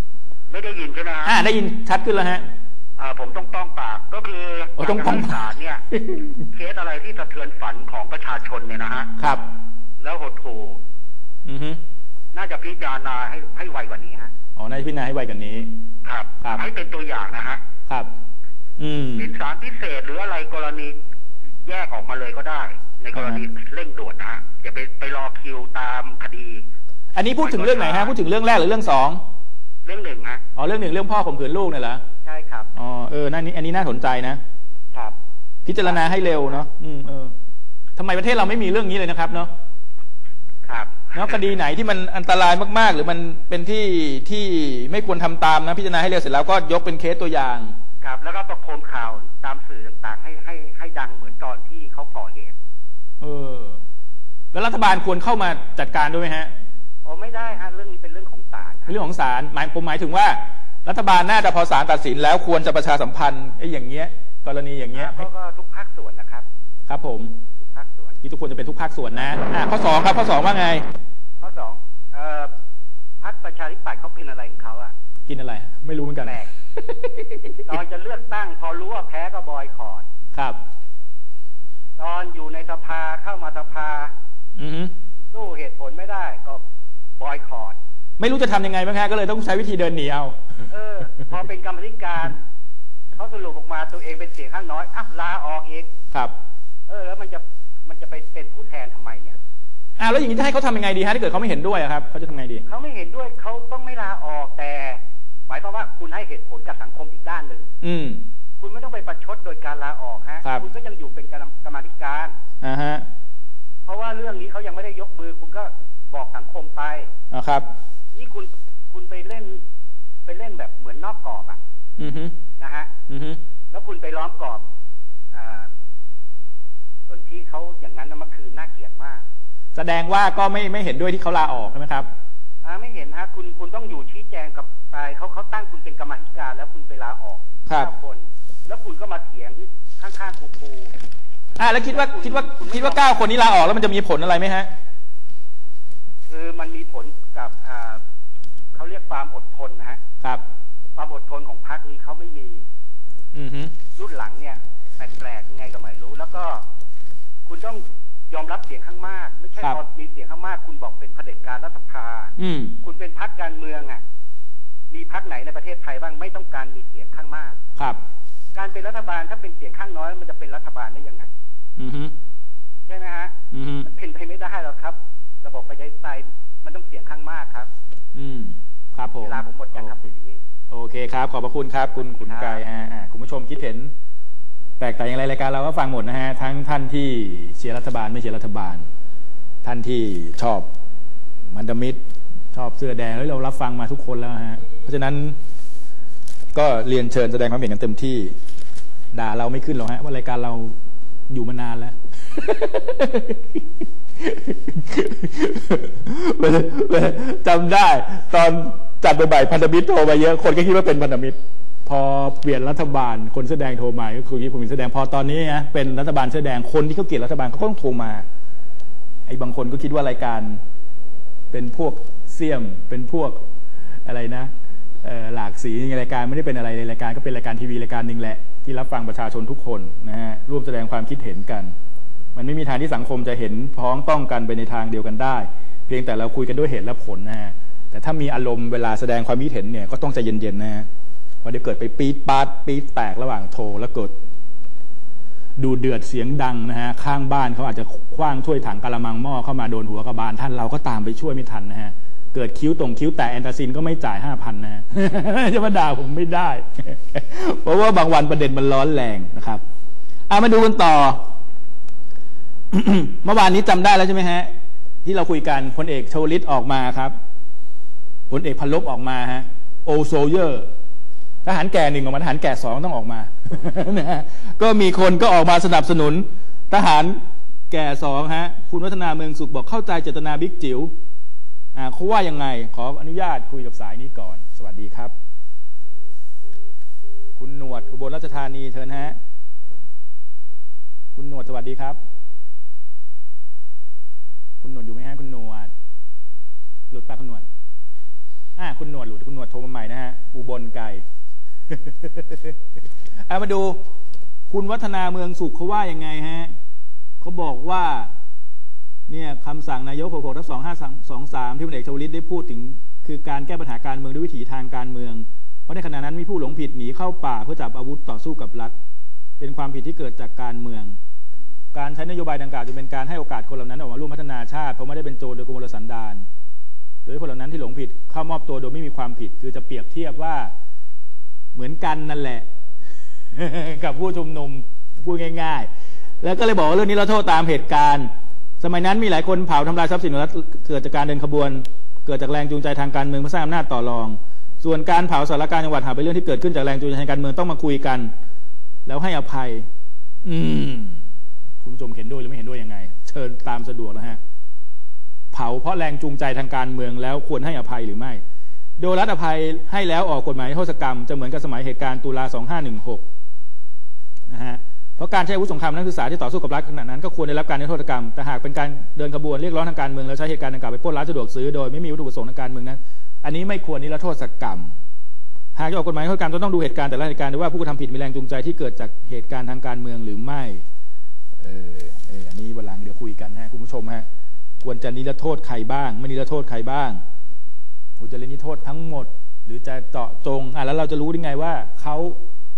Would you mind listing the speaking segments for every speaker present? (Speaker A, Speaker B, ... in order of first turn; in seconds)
Speaker A: 0.5-1.4, 3.0-5.8, 6.5-9.1, 10.0-10.8, 12.3-14.3, 16.0-17.6, 19.2-21.0, 21.6-26.6, 27.4-28.2, 29.8-30.4, 32.2-32.7, 35.8-36.5, 40.6-41.4, 48.0-52.5, 57.0-59.0, 64.9-66.4, 67.6-68.2, 71.4-72.5, 73.2-74.9, 76.2-76.5, 77.7-80.0, 82.0-84.1, 85.3-86.6, 87.2-87.8, 90.7-92.4, 93.2-95.9, 96.9-99.4, 102.7-107.7, 108.6-112.3, 113.8-117.1, 118.1-119.6, 120.2-121.6, 122.6-122.9, 123.7-124.6, 125.3-125.7, 127.1-129.2, 132.6-140.9, 141.9-143.3, 146.3-148.0, 148.7-150.0, 150.9-152.6, 153.9-156.6, 157.4-164.0, 164.9-167.6, 168.5-171.3, 172.9-177.7, 179.2-180.4, 182.0-182.6
Speaker B: 1.2-2.4, 4.8-5.4, 5.9-6.4, 9.2-9.5, 11.4-11.8, 14.6-15.8, 18.8-19.3, 23.1-23.4, 27.1-29.2, 30.6-32.0, 32.7-34.4, 35.6-37.3, 38.0-39.5, 41.1-47.7, 53.2-53.8, 54.5-56.5, 58.9-65.3, 66.9-67.4, 68.2-70.8, 75.3-77.7, 80.3-80.6, 84.6-84.9, 88.2-90.4, 100.0-102.7, 107.8-108.2, 112.6-113.1, 117.3-117.7, 122.0-122.3, 123.1-123.4, 129.7-132.1, 141.6-144.7, 153.3-153.7, 162.4-162.8, 171.8-172.1, 173.5-173.9, 178.1-180.0, 180.7-183.9, 184.8-188.8, 189.6-190.7, 191.5-192.0, 192.5-195.4, 196.5-198.3, 199.1-200.7, 201.3-218.2, 219.3-220.6, 221.5-223.4, 224.1-224.5, 225.0-231.7, 232.3-240.9, 241.4-244.1, 245.6-259.6, 260.3-261.2, 262.7-264.5, 265.0-267.1, 268.3-270.7, 271.4-280.9, 281.7-285.1, 287.4-289.2, 291.1-292.0, 294.6-295.7, 296.9-297.5, 298.6-301.0, 301.7-302.6, 303.3-303.8, 304.5-306.5, 307.2-308.1, 309.1-318.7, 319.4-321.0, 321.7-326.3, 327.1-330.5, 331.5-332.4, 333.3-335.7, 336.2-348.1, 348.9-349.7, 350.2-351.0, 351.6-354.2, 355.3-358.2, 358.8-363.0, 364.3-374.7, 375.5-380.6, 381.4-384.1, 384.6-387.0, 388.0-392.2